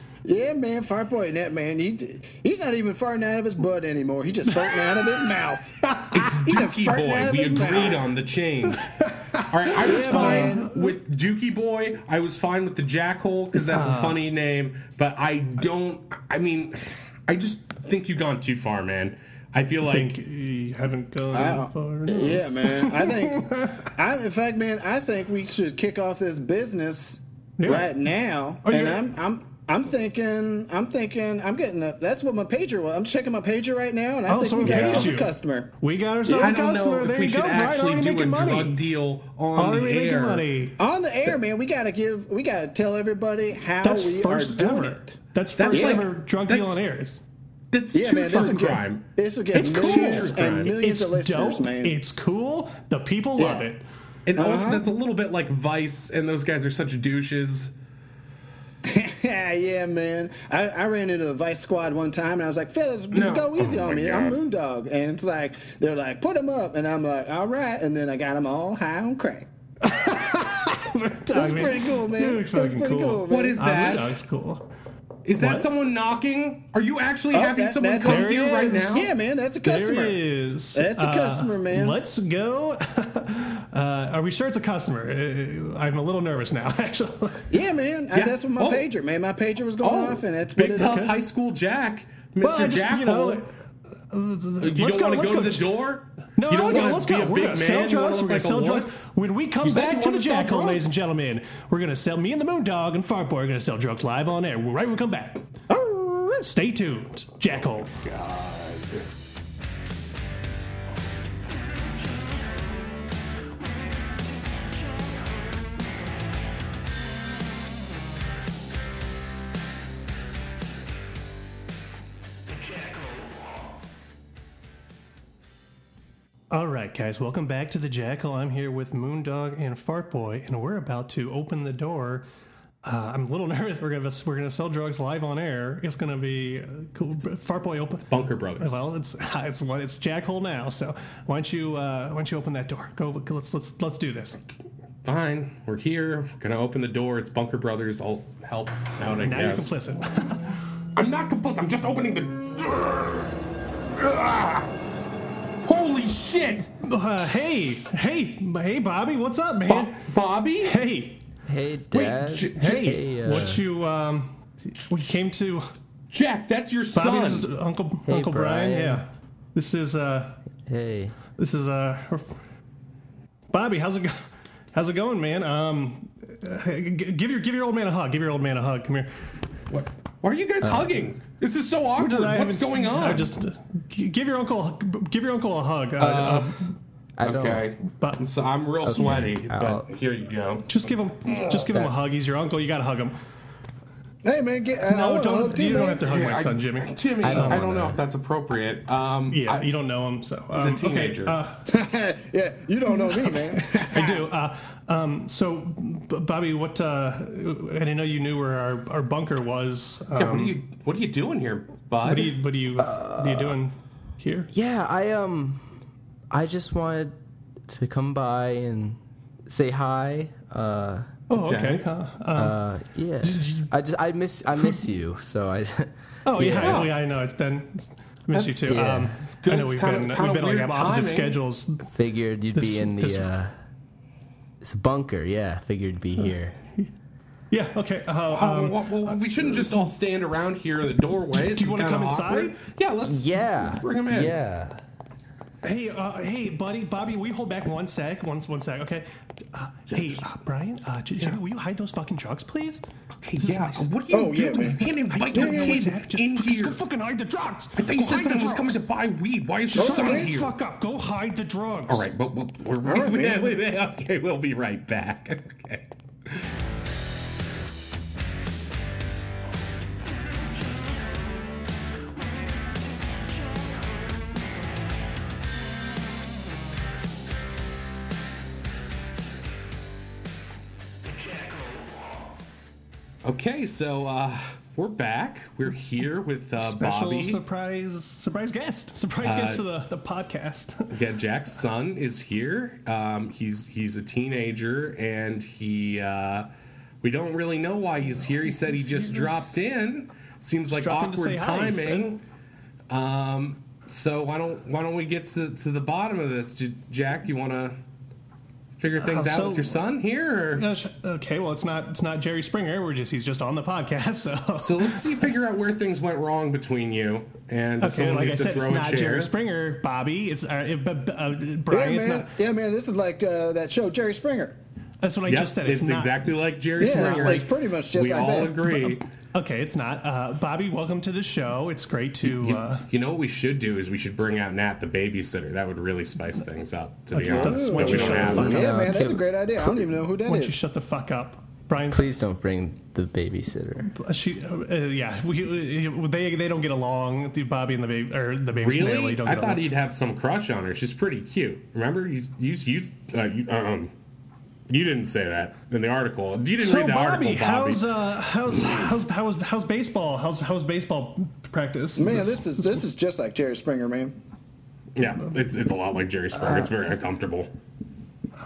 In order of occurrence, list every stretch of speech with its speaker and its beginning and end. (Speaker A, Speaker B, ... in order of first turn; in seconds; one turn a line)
Speaker A: 0.2-8.0
Speaker B: 4.5-5.2
Speaker B: 5.8-6.2
Speaker C: 6.1-20.1
Speaker B: 8.7-10.9
Speaker A: 9.8-10.7
Speaker B: 13.6-14.2
Speaker B: 19.8-23.9
Speaker A: 21.3-35.7
Speaker B: 27.6-27.9
Speaker B: 28.6-29.1
Speaker B: 34.3-38.8
Speaker C: 34.6-35.2
Speaker A: 36.3-36.5
Speaker C: 36.3-40.5
Speaker B: 39.5-40.8
Speaker A: 40.8-45.1
Speaker B: 43.8-47.2
Speaker C: 45.6-46.8
Speaker A: 45.7-46.0
Speaker C: 47.7-50.8
Speaker A: 47.9-52.0
Speaker B: 48.3-48.6
Speaker B: 49.5-53.8
Speaker A: 53.4-53.7
Speaker C: 54.3-57.7
Speaker A: 54.4-54.9
Speaker A: 58.8-69.5
Speaker C: 63.1-64.4
Speaker B: 69.8-74.7
Speaker A: 71.3-74.0
Speaker C: 73.3-74.2
Speaker C: 75.2-79.1
Speaker B: 75.4-75.7
Speaker A: 77.3-80.2
Speaker B: 78.0-79.0
Speaker B: 79.6-87.5
Speaker A: 80.7-82.0
Speaker A: 87.5-91.1
Speaker C: 88.1-88.9
Speaker C: 89.8-93.5
Speaker B: 90.8-91.2
Speaker B: 92.4-93.5
Speaker B: 94.1-95.7
Speaker C: 94.6-99.1
Speaker B: 96.4-108.0
Speaker C: 99.6-101.0
Speaker C: 107.9-109.1
Speaker B: 126.5-132.3
Speaker B: 132.8-144.5
Speaker C: 138.0-138.8
Speaker C: 145.0-149.8
Speaker B: 149.2-150.6
Speaker C: 151.0-153.3
Speaker C: 153.9-154.7
Speaker C: 155.7-156.7
Speaker B: 156.8-160.0
Speaker C: 159.7-160.8
Speaker B: 160.6-161.2
Speaker D: 161.5-163.6
Speaker C: 161.9-162.8
Speaker B: 162.6-165.7
Speaker C: 166.1-167.5
Speaker B: 166.9-170.4
Speaker D: 168.1-169.0
Speaker D: 170.7-171.2
Speaker B: 171.4-172.3
Speaker B: 173.5-179.1
Speaker C: 179.7-183.3
Speaker D: 180.6-180.9
Speaker B: 182.0-186.7
Speaker C: 186.0-186.7
Speaker D: 187.2-187.7
Speaker C: 187.2-190.7
Speaker D: 188.8-189.9
Speaker B: 190.7-193.2
Speaker C: 191.3-191.6
Speaker D: 191.5-191.9
Speaker A: 194.2-196.2
Speaker B: 194.9-197.7
Speaker C: 196.0-199.7
Speaker D: 197.2-198.0
Speaker B: 199.3-201.7
Speaker C: 200.5-201.4
Speaker A: 201.7-204.2
Speaker B: 202.9-210.6
Speaker C: 210.1-212.4
Speaker B: 212.0-214.5
Speaker D: 212.8-213.6
Speaker D: 214.5-215.7
Speaker D: 216.3-217.1
Speaker D: 217.7-219.0
Speaker D: 219.5-221.1
Speaker B: 221.3-222.6
Speaker C: 221.3-221.8
Speaker D: 222.3-226.9
Speaker B: 223.2-223.7
Speaker B: 224.5-224.9
Speaker B: 226.2-231.8
Speaker C: 226.5-226.9
Speaker C: 228.3-231.4
Speaker D: 228.6-229.2
Speaker D: 231.9-233.5
Speaker B: 232.5-233.3
Speaker D: 234.6-236.6
Speaker B: 236.2-236.9
Speaker B: 237.5-239.9
Speaker C: 238.3-244.4
Speaker B: 241.4-242.6
Speaker D: 243.1-244.8
Speaker B: 245.6-252.8
Speaker C: 249.9-250.3
Speaker C: 253.2-256.8
Speaker B: 253.4-258.8
Speaker A: 254.1-255.8
Speaker C: 257.8-260.5
Speaker A: 259.7-260.3
Speaker B: 259.8-262.1
Speaker C: 261.9-266.5
Speaker A: 262.8-263.6
Speaker C: 283.2-287.4
Speaker B: 286.6-291.0
Speaker C: 289.2-289.6
Speaker C: 290.9-296.5
Speaker C: 297.0-302.2
Speaker B: 298.2-299.3
Speaker B: 300.7-302.1
Speaker C: 302.9-307.8
Speaker C: 308.8-310.7
Speaker B: 309.0-309.8
Speaker B: 310.6-315.3
Speaker C: 314.6-319.3
Speaker B: 317.8-322.3
Speaker A: 321.7-324.6
Speaker B: 325.0-326.2
Speaker C: 325.3-329.0
Speaker B: 326.8-327.5
Speaker A: 326.8-328.6
Speaker B: 328.6-332.9
Speaker C: 332.3-338.7
Speaker B: 337.1-338.9
Speaker A: 337.2-340.6
Speaker D: 338.1-339.3
Speaker B: 340.2-342.1
Speaker D: 341.9-343.9
Speaker B: 343.9-349.6
Speaker C: 348.6-353.9
Speaker C: 354.7-357.8
Speaker B: 356.6-362.9
Speaker A: 362.0-364.2
Speaker C: 365.0-367.5